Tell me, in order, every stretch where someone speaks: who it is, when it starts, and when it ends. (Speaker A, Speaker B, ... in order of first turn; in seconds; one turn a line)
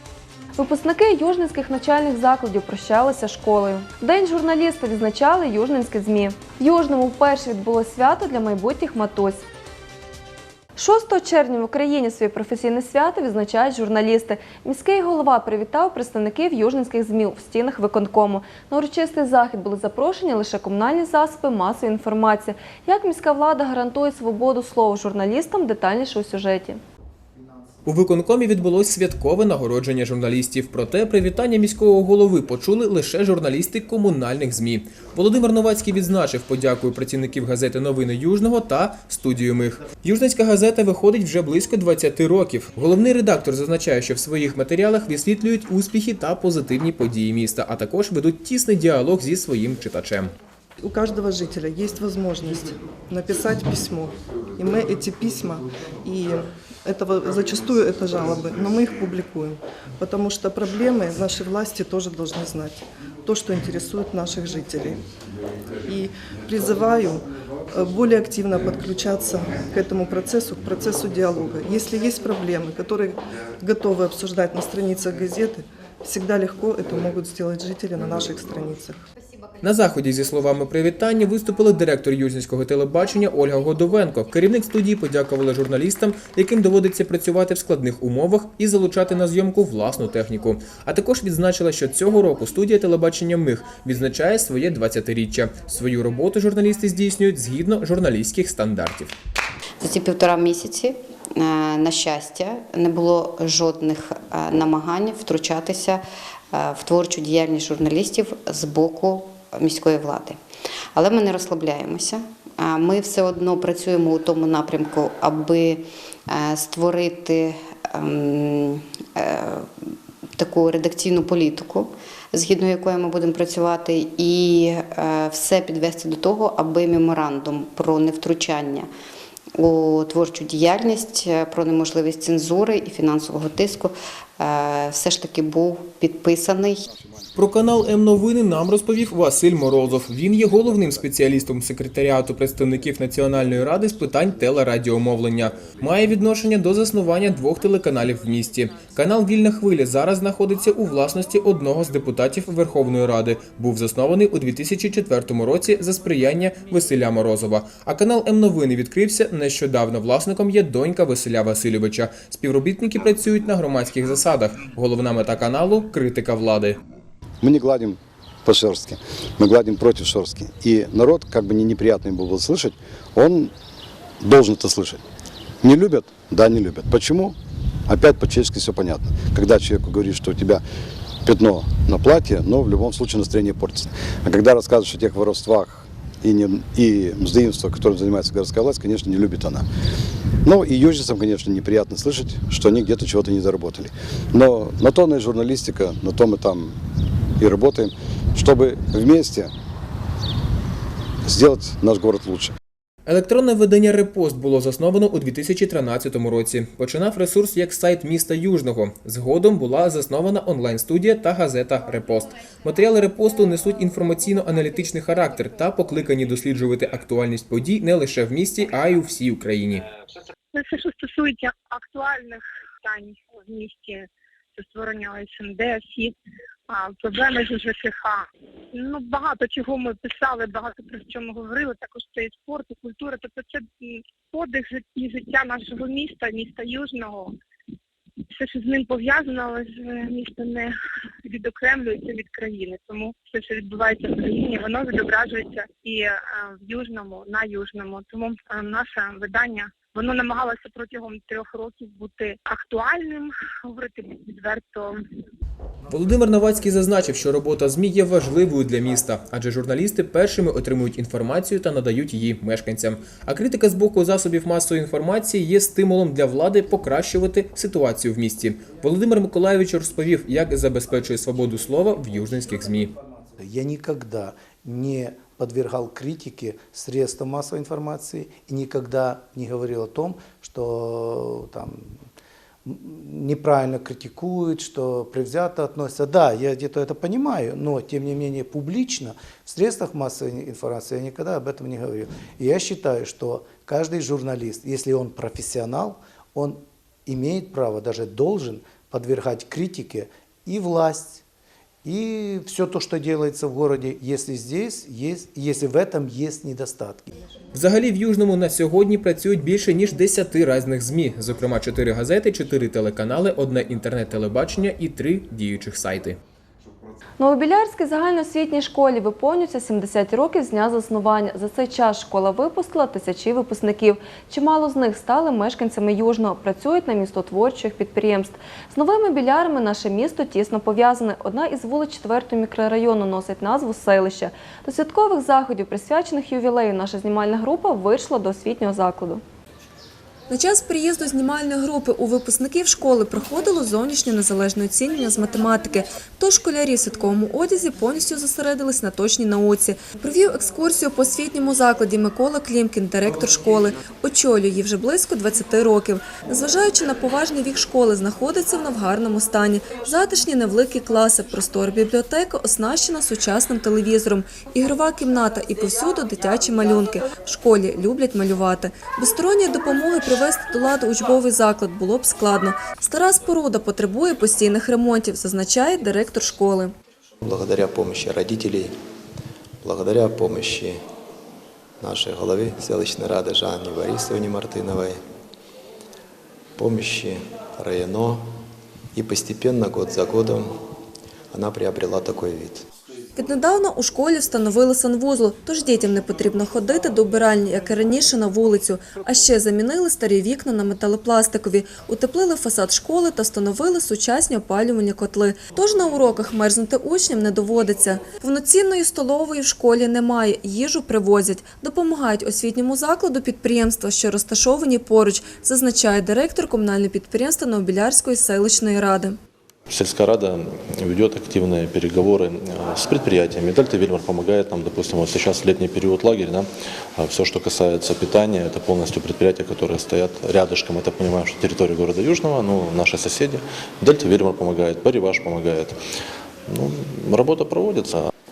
Speaker A: 0.5-9.4
Speaker A: 10.7-26.8
Speaker B: 27.9-50.3
Speaker C: 50.8-65.0
Speaker C: 65.9-79.0
Speaker B: 79.6-99.1
Speaker D: 99.8-110.4
Speaker D: 110.9-119.7
Speaker D: 120.3-128.9
Speaker D: 129.5-136.9
Speaker B: 137.3-166.8
Speaker E: 167.4-173.5
Speaker E: 174.2-175.0
Speaker E: 175.6-177.3
Speaker E: 177.9-180.6
Speaker E: 181.2-189.6
Speaker E: 190.4-196.7
Speaker E: 197.4-199.5
Speaker E: 201.2-202.5
Speaker B: 203.1-219.8
Speaker F: 220.5-226.1
Speaker F: 226.7-237.3
Speaker F: 238.3-240.7
Speaker F: 241.3-254.9
Speaker B: 255.9-272.9
Speaker E: 273.5-273.8
Speaker G: 273.8-277.8
Speaker E: 275.6-275.9
Speaker E: 276.5-278.2
Speaker G: 278.4-281.7
Speaker E: 279.4-279.9
Speaker G: 282.7-286.9
Speaker E: 283.6-284.7
Speaker E: 286.7-287.6
Speaker G: 287.6-291.4
Speaker E: 290.9-292.1
Speaker G: 292.3-294.1
Speaker E: 294.1-295.9
Speaker G: 295.0-295.8
Speaker G: 296.3-300.6
Speaker E: 297.8-298.4
Speaker E: 299.0-299.9
Speaker E: 300.6-301.2
Speaker E: 302.1-307.1
Speaker G: 305.0-306.2
Speaker B: 307.5-316.2
Speaker A: 317.2-339.2
Speaker A: 340.3-376.7
Speaker H: 377.2-378.7
Speaker H: 379.6-380.8
Speaker H: 381.8-385.0
Speaker H: 386.6-388.3
Speaker H: 388.9-390.5
Speaker H: 391.3-392.6
Speaker A: 393.1-419.2
Speaker I: 419.7-435.8
Speaker I: 436.5-438.1